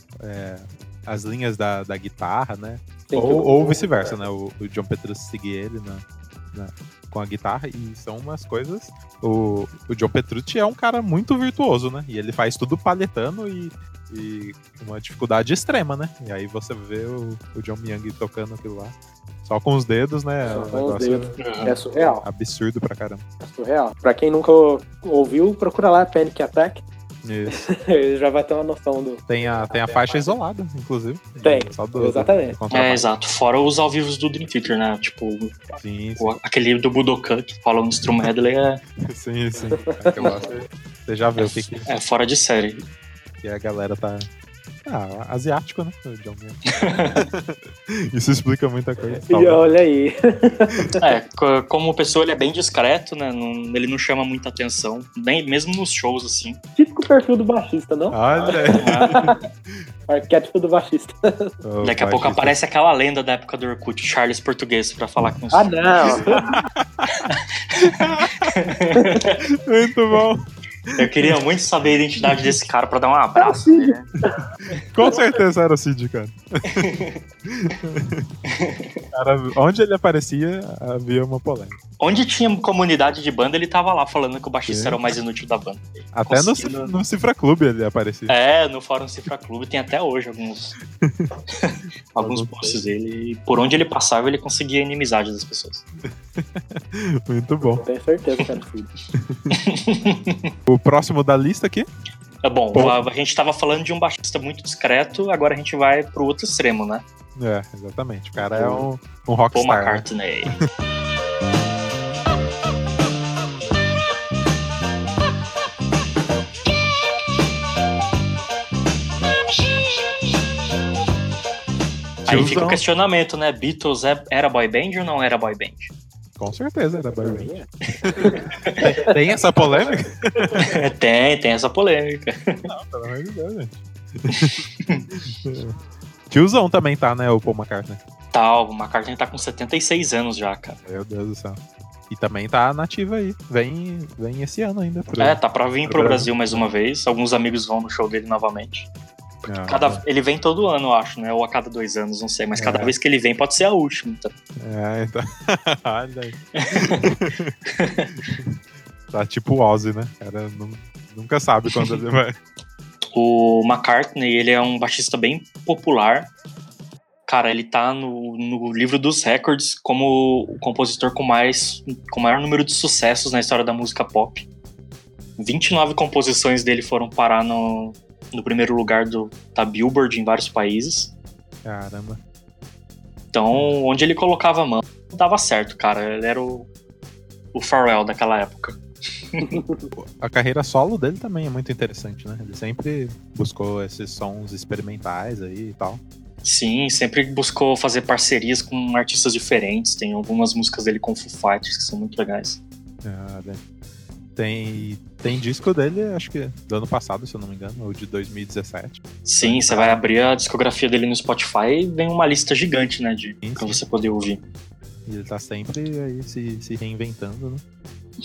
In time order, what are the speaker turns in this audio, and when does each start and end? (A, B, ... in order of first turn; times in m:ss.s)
0:00.2-0:21.3 A
0:03.1-0:04.1 B
0:20.5-0:22.2 B
0:21.4-0:21.8 C
0:22.2-0:23.2 A
0:23.4-0:26.8 B
0:27.2-0:27.7 A
0:27.5-0:29.2 B
0:29.3-0:33.0 A
0:31.4-0:32.6 B
0:32.7-0:38.8 C
0:35.8-0:36.4 A
0:39.1-0:41.9 A
0:39.8-0:40.5 B
0:41.4-0:42.9 C
0:43.4-0:44.3 A
0:44.9-0:46.6 A
0:46.7-0:47.3 C
0:47.1-0:49.6 A
0:49.3-0:51.0 B
0:51.0-0:56.6 C
0:56.8-0:59.4 B
0:58.1-0:59.8 A
0:58.7-0:59.4 C
1:00.1-1:01.5 B
1:01.6-1:02.6 A
1:01.8-1:06.5 C
1:05.5-1:06.5 B
1:06.5-1:07.1 A
1:07.2-1:09.4 C
1:07.8-1:08.6 A
1:09.6-1:11.4 A
1:11.0-1:14.1 C
1:12.2-1:12.6 A
1:13.4-1:14.5 B
1:14.8-1:18.3 A
1:16.7-1:17.2 C
1:18.5-1:19.0 C
1:19.1-1:21.8 A
1:22.0-1:26.9 C
1:24.7-1:25.0 A
1:26.1-1:28.4 A
1:28.3-1:30.8 C
1:31.0-1:31.4 A
1:31.5-1:35.8 C
1:32.2-1:32.9 A
1:36.1-1:37.8 A
1:37.7-1:38.9 B
1:39.2-1:39.6 A
1:39.5-1:40.5 C
1:40.7-1:41.9 A
1:42.4-1:47.0 C
1:42.7-1:43.0 A
1:47.4-1:50.6 A
1:48.5-1:48.8 B
1:49.5-1:50.6 C
2:02.2-2:02.8 A
2:02.3-2:05.9 C
2:06.4-2:07.5 A
2:07.1-2:09.1 B
2:08.0-2:10.8 A
2:08.6-2:08.9 C
2:10.6-2:12.7 C
2:12.7-2:14.6 A
2:14.3-2:15.1 C
2:15.2-2:15.8 A
2:16.3-2:18.0 A
2:18.3-2:20.8 C
2:20.8-2:21.6 A
2:22.1-2:26.7 A
2:25.2-2:28.9 C
2:29.5-2:30.0 A
2:29.6-2:34.4 C
2:32.6-2:33.0 A
2:34.6-2:37.6 A
2:36.6-2:37.1 C
2:37.7-2:38.1 C
2:38.2-2:38.6 A
2:39.1-2:42.4 A
2:41.7-2:42.0 C
2:43.2-2:46.3 C
2:47.3-2:54.5 C
2:55.4-3:01.1 C
3:01.6-3:02.2 A
3:03.3-3:06.7 C
3:07.5-3:08.8 C
3:09.3-3:09.6 C
3:09.5-3:09.9 B
3:10.0-3:16.0 A
3:16.4-3:22.6 C
3:23.0-3:23.6 A
3:24.4-3:30.0 A
3:29.2-3:34.4 C
3:33.4-3:33.8 A
3:35.1-3:37.6 A